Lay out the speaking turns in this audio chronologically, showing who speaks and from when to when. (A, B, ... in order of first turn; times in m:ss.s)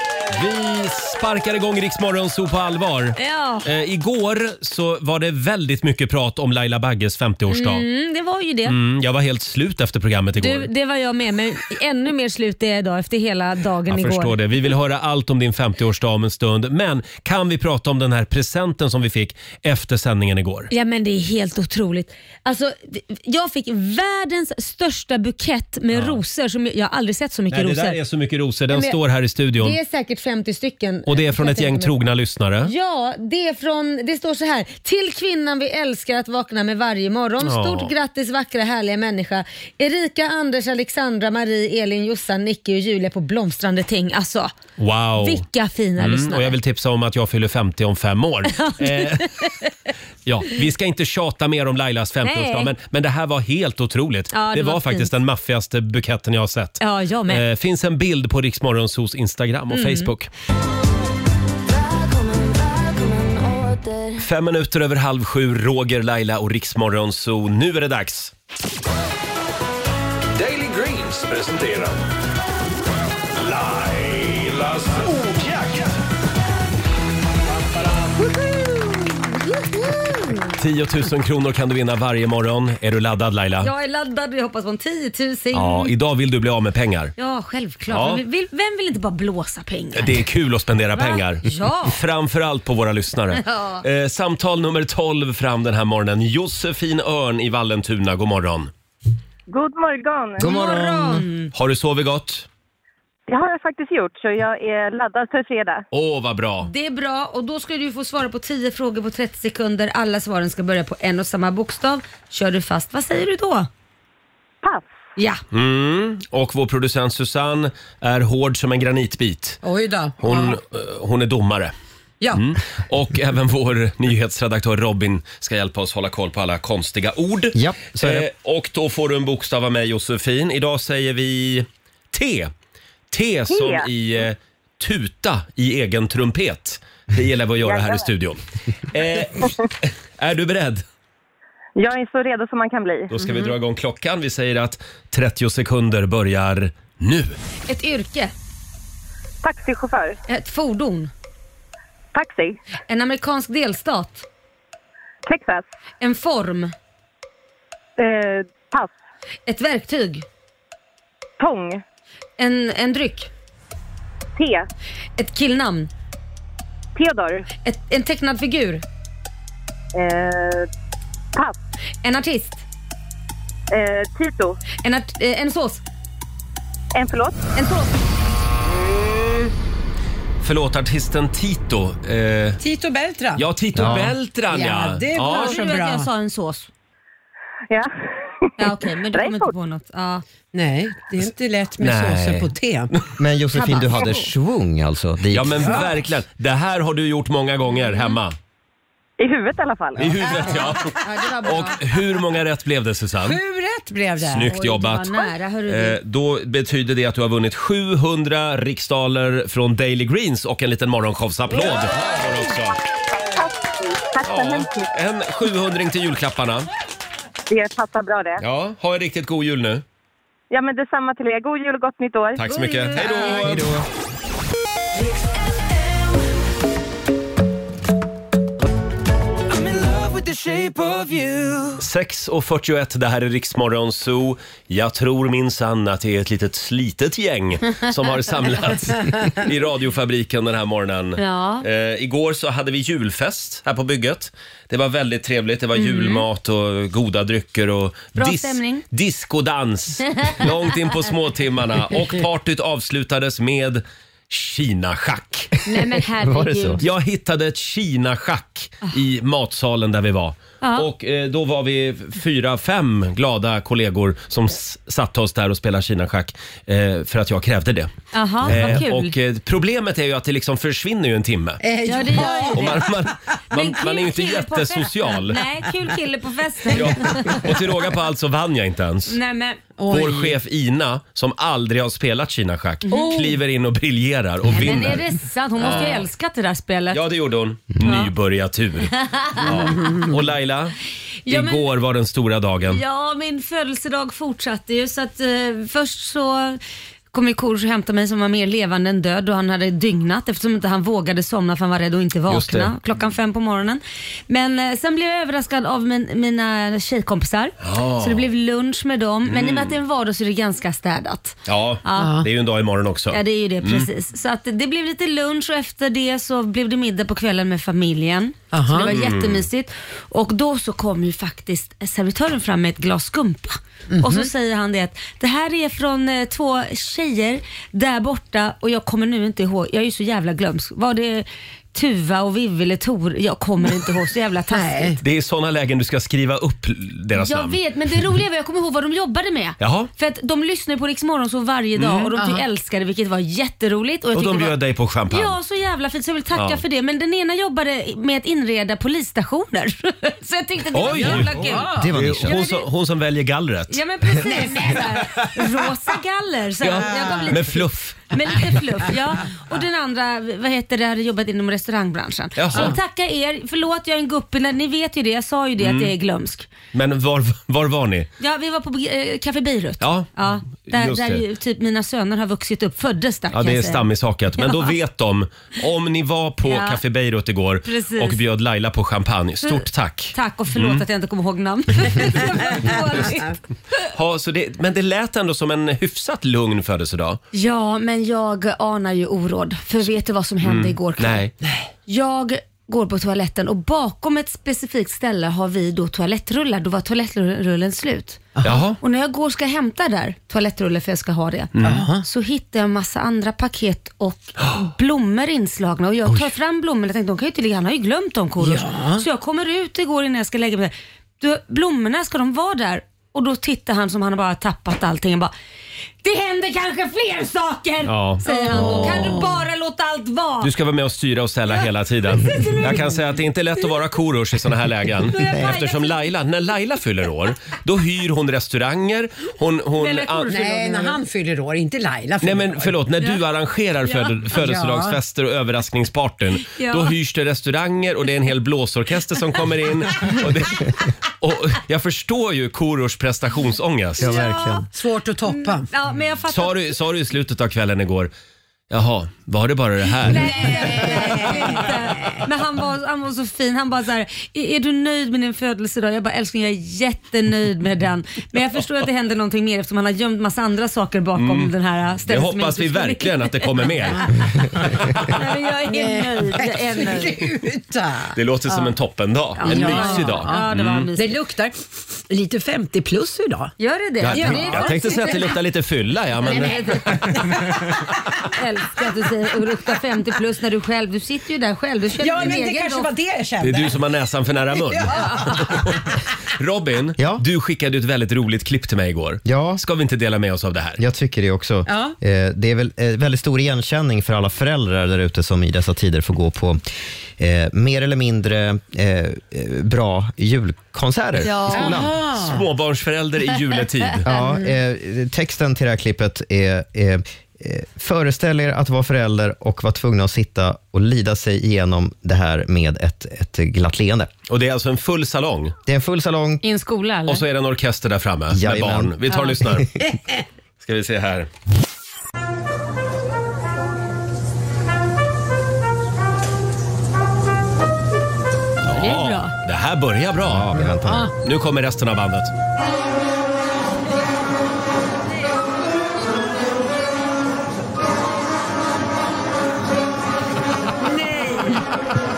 0:00.3-0:07.8 A
0:03.2-0:03.7 B
0:07.5-0:08.7 B
0:08.7-0:10.7 A
0:10.4-0:14.3 B
0:13.9-0:20.7 A
0:20.7-0:28.0 B
0:25.9-0:26.2 A
0:27.5-0:29.8 A
0:28.7-0:29.0 B
0:29.6-0:31.9 B
0:31.0-0:32.7 A
0:32.6-0:44.5 B
0:37.4-0:37.9 A
0:44.8-0:45.4 A
0:45.2-0:46.6 B
0:46.0-0:49.3 A
0:48.5-0:49.5 B
0:50.2-1:00.3 A
0:52.2-0:52.7 B
0:54.3-0:55.1 B
0:56.8-0:57.4 B
0:59.7-1:00.1 B
1:04.2-1:08.3 A
1:10.3-1:12.0 C
1:13.4-1:15.9 C
1:18.5-1:19.2 B
1:19.8-1:20.4 B
1:20.6-1:23.7 A
1:23.6-1:25.9 B
1:25.5-1:27.1 A
1:27.2-1:30.2 B
1:27.9-1:28.2 A
1:29.9-1:38.7 A
1:30.9-1:31.9 B
1:33.4-1:33.8 B
1:39.5-1:40.4 D
1:40.4-1:41.2 E
1:40.4-1:41.5 B
1:41.5-1:42.5 A
1:43.3-1:45.8 D
1:45.9-1:46.7 A
1:46.6-1:53.7 B
1:54.6-1:54.9 D
1:55.5-1:59.6 A
1:59.6-2:00.6 F
2:00.2-2:01.7 A
2:02.3-2:12.5 A
2:07.5-2:08.3 E
2:13.1-2:20.8 A
2:13.5-2:13.9 D
2:17.6-2:18.0 D
2:21.8-2:23.1 D
2:23.1-2:27.4 A
2:27.7-2:28.3 B
2:29.4-2:30.2 D
2:30.3-2:31.1 B
2:32.1-2:32.6 D
2:32.9-2:34.2 B
2:35.2-2:35.6 D
2:36.0-2:36.7 B
2:38.0-2:38.9 D
2:39.4-2:40.2 B
2:41.4-2:41.8 D
2:42.4-2:43.3 B
2:44.4-2:44.7 D
2:45.2-2:45.9 B
2:47.0-2:47.5 D
2:47.6-2:48.8 B
2:49.9-2:50.7 D
2:52.0-2:52.6 B
2:53.7-2:54.6 D
2:54.8-2:55.8 B
2:56.9-2:57.4 D
2:57.6-2:57.9 B
3:00.4-3:02.6 A
3:02.6-3:04.0 F
3:03.4-3:05.7 A
3:03.8-3:04.1 E
3:04.5-3:06.1 F
3:05.2-3:06.7 B
3:08.4-3:09.5 D
3:08.6-3:10.2 B
3:10.5-3:12.9 F
3:11.2-3:13.0 A
3:13.2-3:15.8 E
3:13.5-3:14.3 B
3:15.3-3:18.3 A
3:17.7-3:18.1 B
3:19.2-3:20.1 D
3:20.0-3:23.4 A
3:21.0-3:21.8 B
3:23.2-3:24.6 F
3:24.2-3:32.8 A
3:24.4-3:26.0 B
3:33.4-3:34.9 D
3:34.2-3:36.7 A
3:37.5-3:38.4 D
3:38.4-3:39.8 A
3:40.5-3:42.5 D
3:42.4-3:43.7 A
3:42.5-3:43.3 B
3:43.3-3:43.8 E
3:45.5-3:46.0 G
3:49.5-3:51.8 G
3:51.8-4:15.5 A
4:01.2-4:01.6 B
4:05.8-4:06.2 B
4:08.1-4:08.8 B
4:15.6-4:16.8 B
4:16.2-4:16.8 E
4:16.8-4:27.9 A
4:20.6-4:20.9 B
4:28.1-4:29.1 B
4:28.4-4:31.6 A
4:31.6-4:32.8 F
4:31.8-4:32.9 B
4:32.2-4:35.4 A
4:33.5-4:37.5 B
4:36.7-4:39.2 A
4:39.1-4:39.6 B
4:39.8-4:40.3 F
4:39.9-4:45.1 A
4:42.8-4:43.3 B
4:42.9-4:43.3 F
4:44.5-4:47.0 B
4:45.6-4:46.1 A
4:46.9-4:50.8 A
4:47.8-4:48.1 B
4:49.0-4:49.7 B
4:49.8-4:50.1 F
4:51.2-4:51.6 B
4:51.3-4:52.8 A
4:52.7-4:56.6 B
4:57.1-5:12.1 B
5:02.3-5:02.8 A
5:07.6-5:08.2 A
5:09.2-5:09.8 A
5:11.4-5:13.9 A
5:12.0-5:12.3 F
5:13.1-5:35.0 B
5:18.5-5:19.0 F
5:18.9-5:19.4 A
5:23.9-5:24.3 F
5:34.5-5:35.0 F
5:35.0-5:37.6 A
5:37.2-5:44.6 B
5:39.6-5:39.9 A
5:41.8-5:42.1 A
5:42.2-5:42.4 F
5:44.1-5:45.4 A
5:45.1-5:51.7 B
5:46.3-5:46.6 A
5:50.7-5:53.8 A
5:51.0-5:51.9 F
5:51.8-5:52.4 E
5:52.2-5:52.6 B
5:53.7-6:06.5 B
5:56.6-5:58.4 A
6:02.4-6:02.8 A
6:05.6-6:05.9 A
6:06.7-6:08.1 A
6:08.2-6:13.8 B
6:09.8-6:11.2 A
6:13.3-6:20.8 A
6:14.4-6:14.7 B
6:16.4-6:16.8 B
6:17.6-6:18.2 B
6:19.4-6:23.3 B
6:23.9-6:27.2 A
6:27.3-6:31.2 B
6:30.4-6:31.3 A
6:31.4-6:31.7 F
6:31.9-6:55.3 B
6:38.4-6:38.6 F
6:38.4-6:38.8 A
6:41.5-6:41.9 A
6:41.6-6:42.0 F
6:48.4-6:49.1 F
6:56.0-7:00.5 B
6:57.8-6:59.1 A
6:58.2-6:59.4 F
7:00.4-7:10.7 A
7:02.2-7:02.7 B
7:05.1-7:06.0 B
7:09.9-7:13.1 F
7:10.6-7:11.0 B
7:12.2-7:24.2 A
7:13.9-7:14.2 B
7:14.3-7:15.0 F
7:16.4-7:16.9 B
7:24.0-7:24.6 E
7:24.0-7:24.7 B
7:24.7-7:25.7 F
7:25.3-7:26.6 B
7:26.3-7:28.1 A
7:28.7-7:30.5 A
7:30.1-7:32.2 F
7:30.1-7:43.7 B
7:41.2-7:41.5 A
7:42.1-7:44.9 A
7:45.1-7:47.2 B
7:45.6-7:48.7 F
7:48.1-7:50.9 A
7:49.4-7:51.2 B
7:49.4-7:53.5 F
7:53.6-7:55.3 B
7:54.0-7:57.3 A
7:54.1-7:55.2 F
7:56.2-7:57.5 F
7:56.2-7:57.4 B
7:58.3-8:02.9 B
8:02.0-8:03.8 F
8:03.4-8:10.8 A
8:04.6-8:05.6 F
8:04.9-8:05.3 B
8:09.2-8:09.6 E
8:10.8-8:16.6 E
8:11.7-8:11.9 F
8:17.2-8:22.0 E
8:21.2-8:21.8 B
8:21.5-8:22.4 F
8:22.2-8:24.1 A
8:24.0-8:34.1 E
8:24.2-8:24.5 F
8:34.3-8:35.6 A
8:35.7-8:36.4 E
8:36.4-8:37.2 B
8:37.1-8:39.7 A
8:38.3-8:38.9 E
8:39.1-8:39.4 B
8:40.6-8:41.3 A
8:48.6-8:52.3 A
8:48.7-8:49.3 B
8:50.2-8:51.1 E
8:50.7-8:51.1 F
9:00.9-9:01.6 F